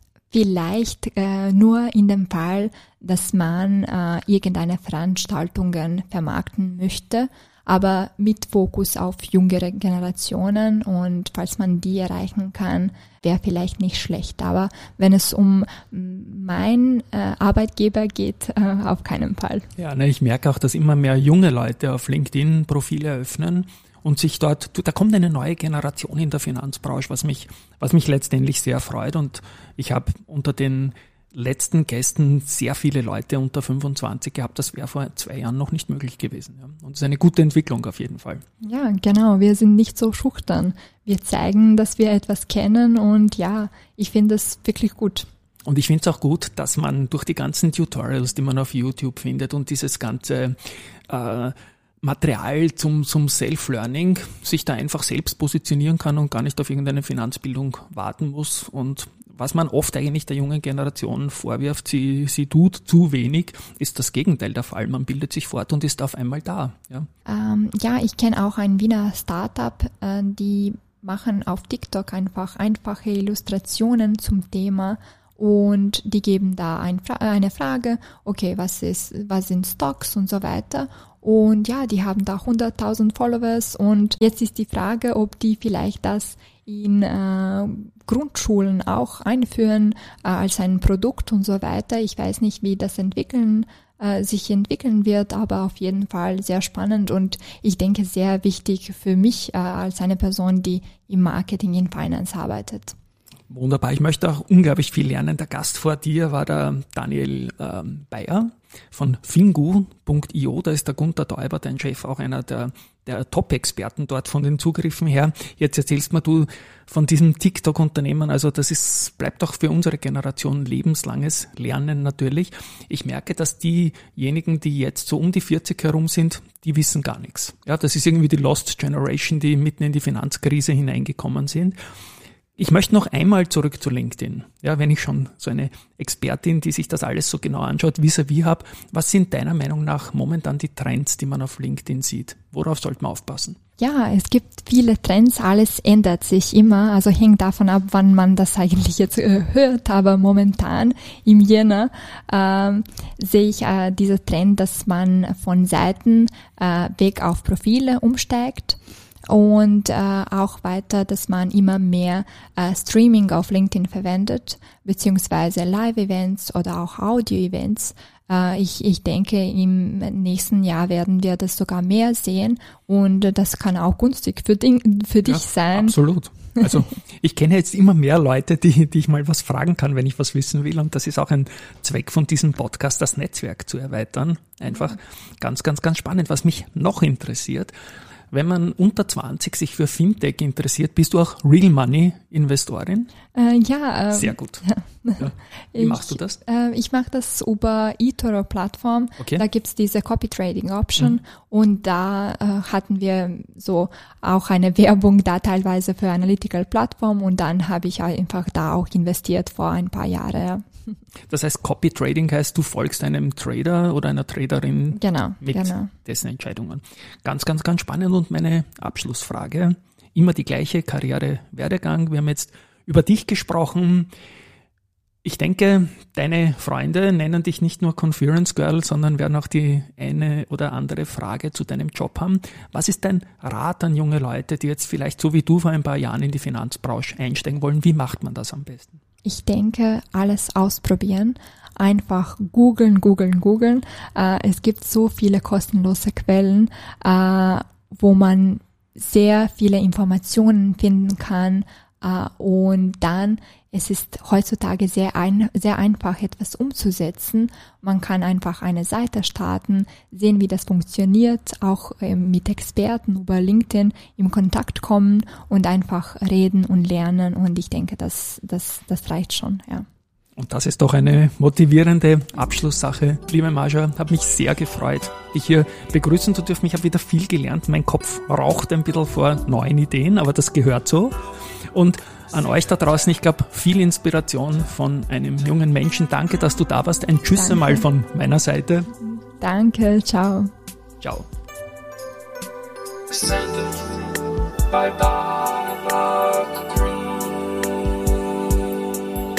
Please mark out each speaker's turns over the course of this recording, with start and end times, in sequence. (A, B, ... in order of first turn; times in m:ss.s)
0:00.3-0:19.7 A
0:19.8-0:38.4 B
0:38.6-0:45.3 A
0:45.7-1:07.1 B
1:07.3-1:43.0 A
1:43.5-2:11.8 B
2:12.6-2:23.6 B
2:23.8-2:56.0 A
2:55.2-3:07.7 B
3:08.3-3:13.1 B
3:13.3-3:30.7 A
3:14.1-3:14.6 B
3:15.2-3:16.4 B
3:31.3-3:44.1 B
3:34.9-3:35.9 A
3:45.2-3:59.0 B
3:59.2-4:29.9 A
4:30.4-4:48.9 B
4:47.4-4:47.8 A
4:49.0-4:50.5 A
4:51.0-4:51.3 B
4:53.1-4:53.9 B
4:54.7-4:56.8 B